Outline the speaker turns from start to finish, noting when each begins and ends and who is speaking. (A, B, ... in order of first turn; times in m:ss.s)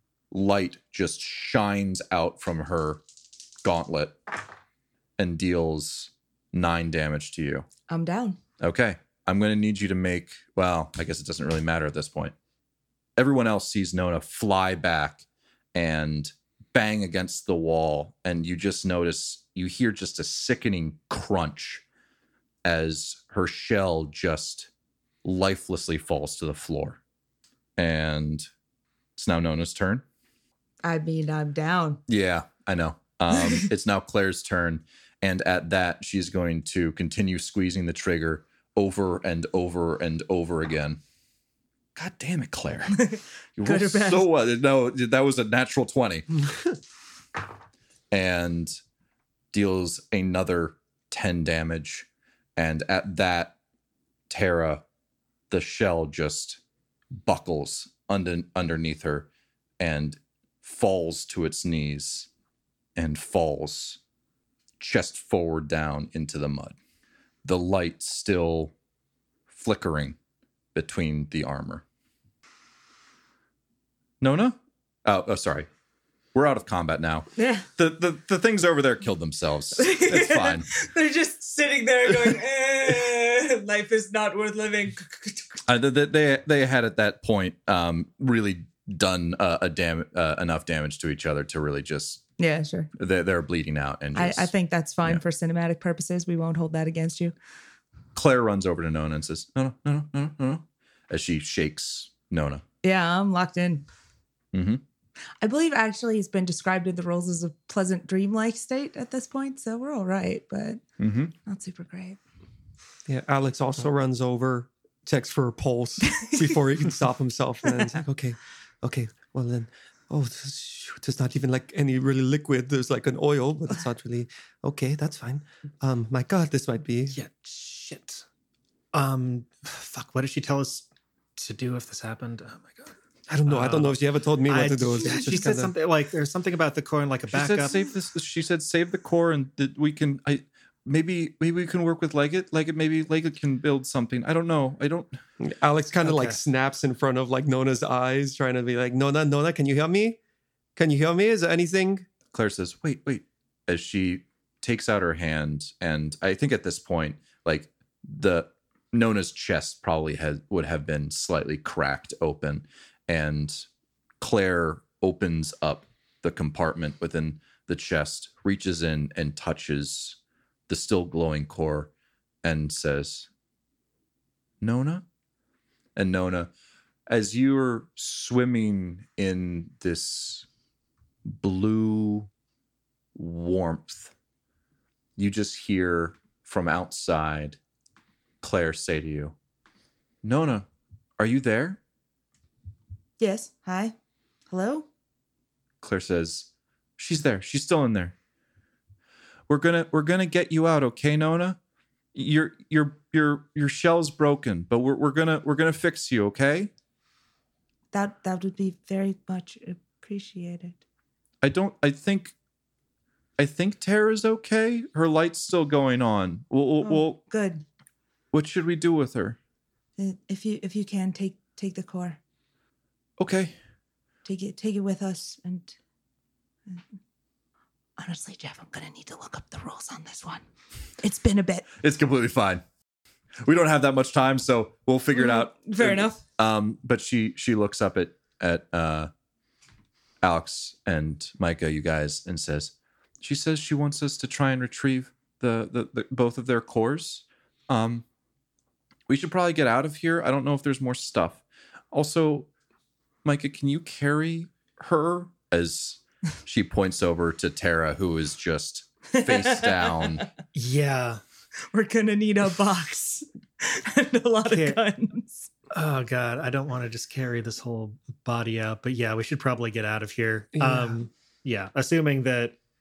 0:00.3-0:03.0 A
0:03.6-0:04.2 A
0:05.2-0:07.6 A
0:07.9-0:08.4 B
0:08.6-0:12.3 A
0:13.2-0:21.8 A
0:22.6-0:24.7 A
0:25.2-0:27.0 A
0:27.8-0:28.5 A
0:29.2-0:30.0 A
0:30.8-0:32.0 B
0:32.1-0:41.0 A
0:33.3-0:33.6 B
0:42.0-0:43.0 A
0:42.9-0:44.3 B
0:43.6-0:46.4 A
0:48.1-0:48.8 A
0:49.5-0:53.5 A
0:54.3-0:54.8 A
0:55.5-0:56.6 A
0:57.2-0:59.3 A
0:59.8-1:02.3 A
1:03.0-1:04.0 A
1:04.8-1:06.8 A
1:07.4-1:08.7 A
1:09.5-1:10.2 A
1:10.7-1:11.8 A
1:14.2-1:15.7 A
1:16.3-1:20.7 A
1:17.4-1:17.6 B
1:19.8-1:25.6 B
1:25.7-1:32.2 A
1:32.4-1:32.9 B
1:33.0-1:34.5 A
1:34.1-1:37.3 B
1:38.1-1:42.6 A
1:42.8-1:43.8 B
1:44.5-1:44.8 A
1:45.4-1:50.8 B
1:51.0-1:51.3 A
1:51.4-1:52.2 B
1:53.0-2:07.2 C
1:56.1-1:56.5 B
2:07.1-2:08.2 D
2:08.9-2:12.9 D
2:13.3-2:15.7 C
2:13.5-2:17.8 D
2:17.3-2:25.1 A
2:25.4-2:30.2 C
2:26.0-2:26.4 D
2:30.8-2:32.1 C
2:32.3-2:43.6 A
2:44.2-2:51.9 A
2:52.4-2:53.3 A
2:54.6-2:55.0 A
2:56.0-2:56.5 A
2:57.1-3:00.4 A
3:01.2-3:02.3 A
3:03.1-3:04.1 A
3:05.2-3:07.6 A
3:08.4-3:09.3 A
3:10.2-3:10.6 A
3:11.2-3:11.8 A
3:13.2-3:13.9 B
3:14.5-3:14.8 B
3:15.8-3:18.1 A
3:19.5-3:21.6 A
3:22.1-3:26.7 A
3:27.9-3:30.8 B
3:31.4-3:32.3 A
3:33.4-3:37.2 A
3:36.8-3:37.6 B
3:38.3-3:39.4 A
3:40.0-3:42.2 B
3:43.2-3:43.5 A
3:44.2-3:45.8 B
3:48.0-3:50.4 B
3:51.0-3:51.6 B
3:51.8-3:52.6 A
3:53.4-3:59.1 A
3:55.1-3:56.2 B
4:00.2-4:08.0 A
4:09.1-4:12.5 A
4:13.2-4:20.2 A
4:19.1-4:20.2 B
4:20.5-4:21.2 D
4:21.7-4:25.5 B
4:24.5-4:24.8 D
4:25.7-4:32.6 D
4:30.5-4:31.0 C